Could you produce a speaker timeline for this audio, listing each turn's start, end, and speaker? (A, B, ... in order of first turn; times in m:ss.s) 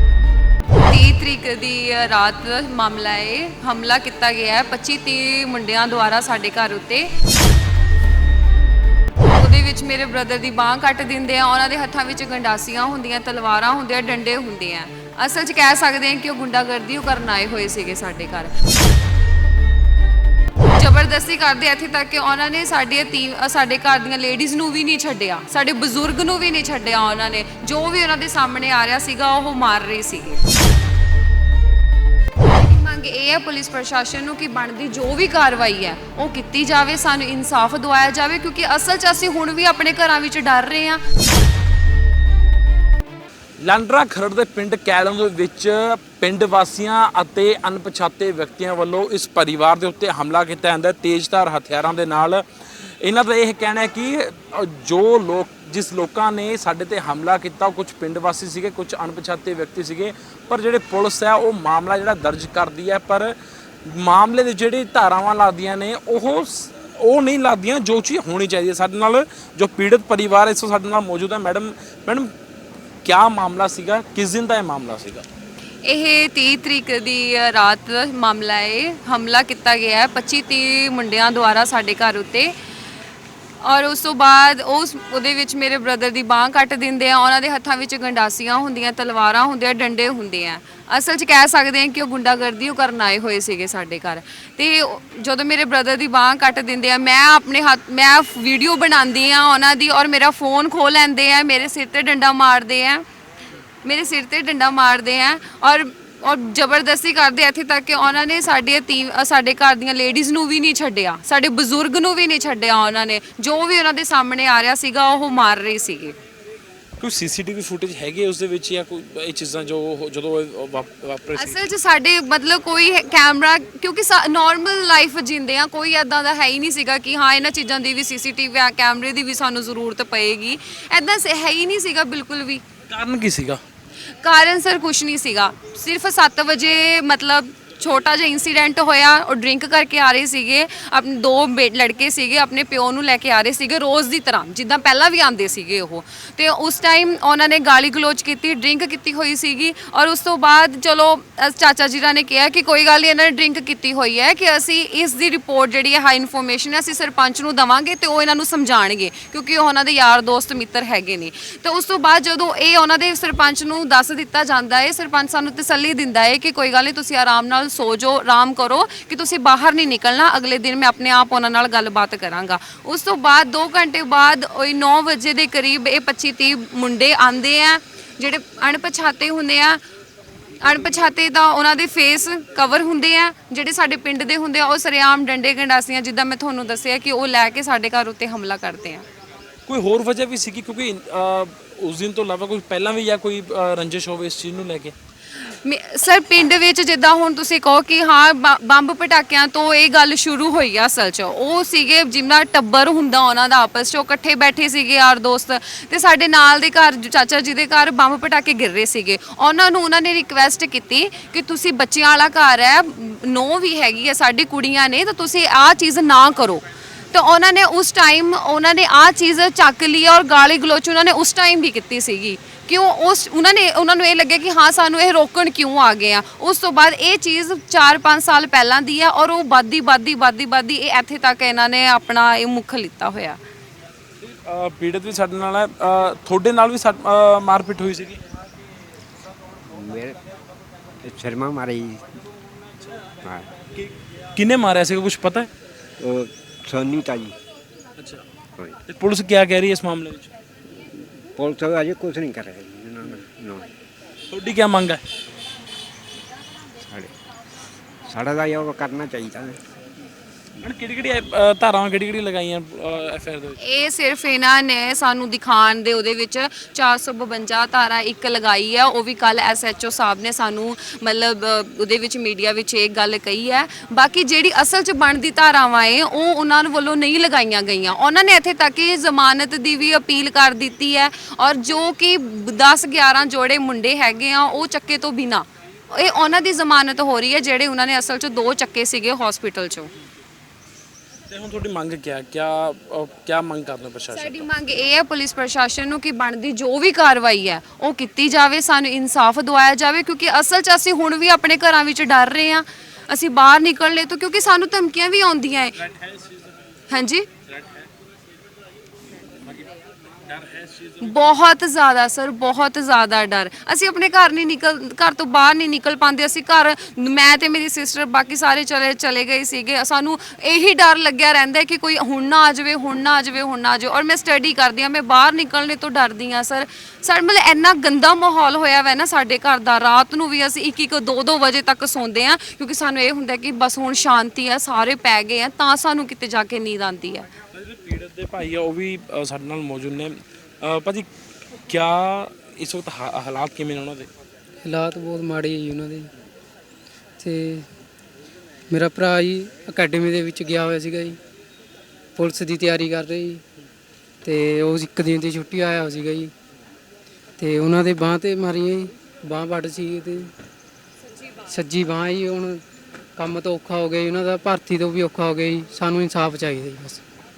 0:00.8-0:07.1 A
0:09.3-0:18.5 A
0:20.7-0:30.4 A
0:32.5-0:41.0 A
0:43.6-0:52.4 B
0:53.0-1:12.3 B
1:13.0-1:15.2 B
1:15.8-1:22.5 A
1:23.6-1:43.0 A
1:43.8-1:56.2 A
1:57.0-2:01.7 B
2:01.3-2:12.6 A
2:12.9-2:13.6 B
2:14.2-2:59.8 A
3:00.6-3:09.0 A
3:09.7-3:14.9 B
3:15.4-3:53.4 A
3:54.2-3:58.2 B
3:59.6-4:00.2 C
4:01.0-4:02.1 C
4:03.2-4:03.5 C
4:03.7-4:05.5 B
4:06.0-4:07.4 C
4:08.0-4:08.2 B
4:08.8-4:10.3 B
4:11.3-4:13.7 C
4:14.3-4:15.0 B
4:16.8-4:17.1 C
4:18.0-4:19.6 C
4:20.6-4:23.6 B
4:23.6-4:49.9 A
4:51.3-4:54.5 B
4:54.1-5:05.8 A
5:05.8-5:06.6 B
5:06.9-5:07.3 A
5:07.4-5:07.9 B
5:10.2-5:11.2 B
5:11.0-5:37.3 A
5:37.5-5:41.1 B
5:41.7-5:44.1 B
5:44.6-5:46.1 D
5:47.2-5:47.7 D
5:48.7-5:51.2 D
5:52.2-5:53.4 D
5:54.2-5:56.3 D
5:57.4-6:00.3 D
6:01.4-6:02.6 D
6:03.2-6:07.0 D